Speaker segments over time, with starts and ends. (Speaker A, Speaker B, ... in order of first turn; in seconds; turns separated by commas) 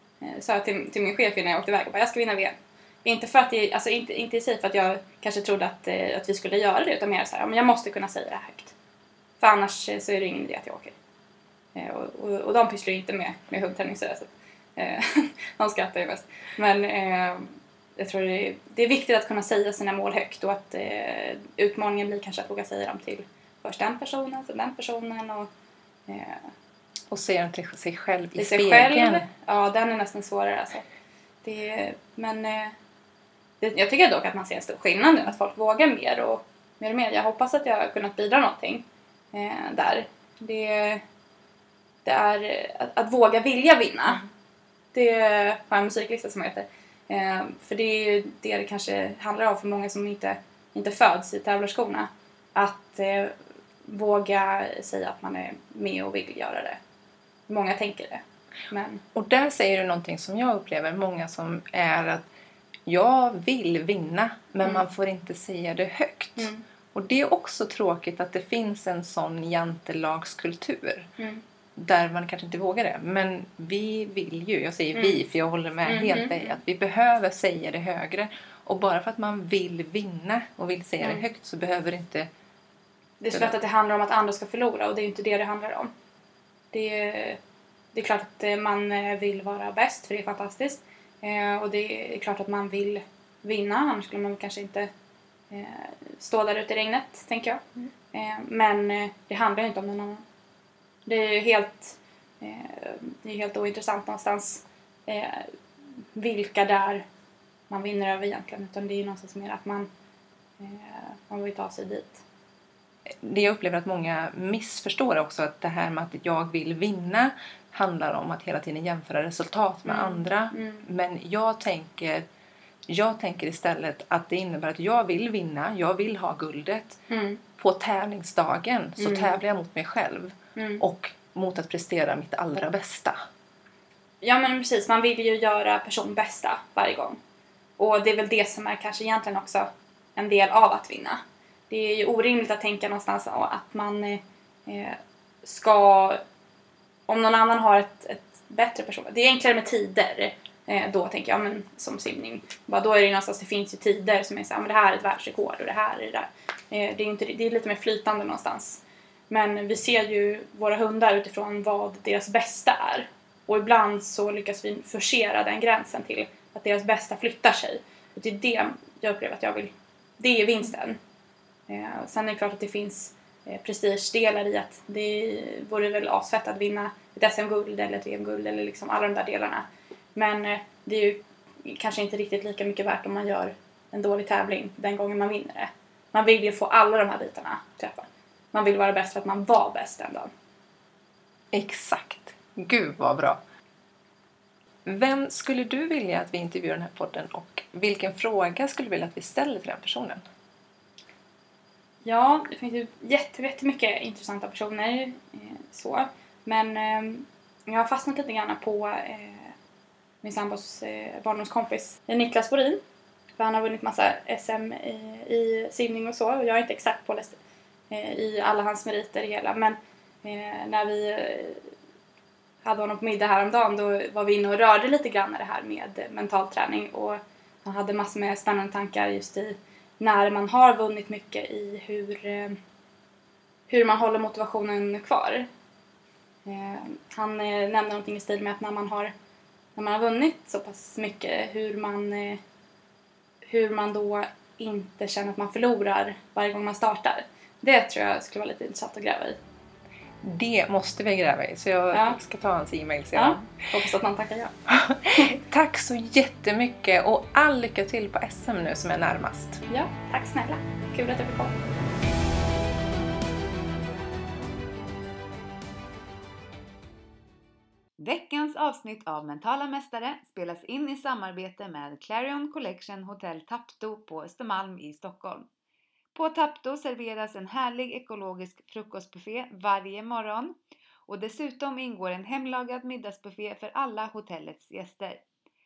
Speaker A: 0.2-8.7, Speaker A: 9.4-10.9, Speaker A: 11.7-25.5, Speaker A: 26.1-26.5, Speaker B: 27.1-29.3, Speaker A: 28.4-30.9, Speaker A: 31.4-32.7, Speaker A: 33.6-41.0, Speaker A: 42.0-44.2, Speaker A: 44.9-56.8, Speaker A: 57.5-59.0, Speaker B: 59.1-62.3, Speaker B: 62.9-71.1, Speaker A: 66.4-66.6, Speaker B: 71.8-82.3, Speaker A: 74.9-75.2, Speaker A: 75.8-76.6, Speaker A: 83.2-85.9, Speaker A: 86.7-87.4, Speaker A: 87.9-94.9, Speaker A: 95.5-100.2, Speaker A: 101.0-105.5, Speaker A: 106.1-107.0, Speaker A: 107.7-109.9, Speaker A: 110.6-112.2, Speaker B: 113.1-122.2, Speaker A: 119.8-120.8, Speaker B: 122.9-127.0, Speaker A: 127.1-127.4, Speaker B: 127.6-133.2, Speaker A: 129.0-129.4, Speaker A: 130.6-130.8, Speaker A: 134.2-137.2, Speaker A: 137.8-146.2, Speaker A: 147.1-171.0, Speaker A: 171.7-190.3, Speaker B: 191.5-193.4, Speaker B: 194.8-200.2, Speaker A: 202.0-209.5, Speaker A: 210.2-212.8, Speaker A: 213.4-217.4, Speaker A: 217.9-221.7, Speaker A: 222.6-232.6, Speaker A: 233.7-235.5, Speaker A: 236.4-239.1, Speaker A: 239.8-242.4, Speaker A: 243.4-249.4, Speaker B: 250.2-253.6, Speaker A: 251.9-252.2, Speaker A: 253.1-254.5, Speaker B: 254.7-259.6, Speaker A: 259.7-261.6, Speaker C: 268.0-275.5, Speaker C: 276.1-285.2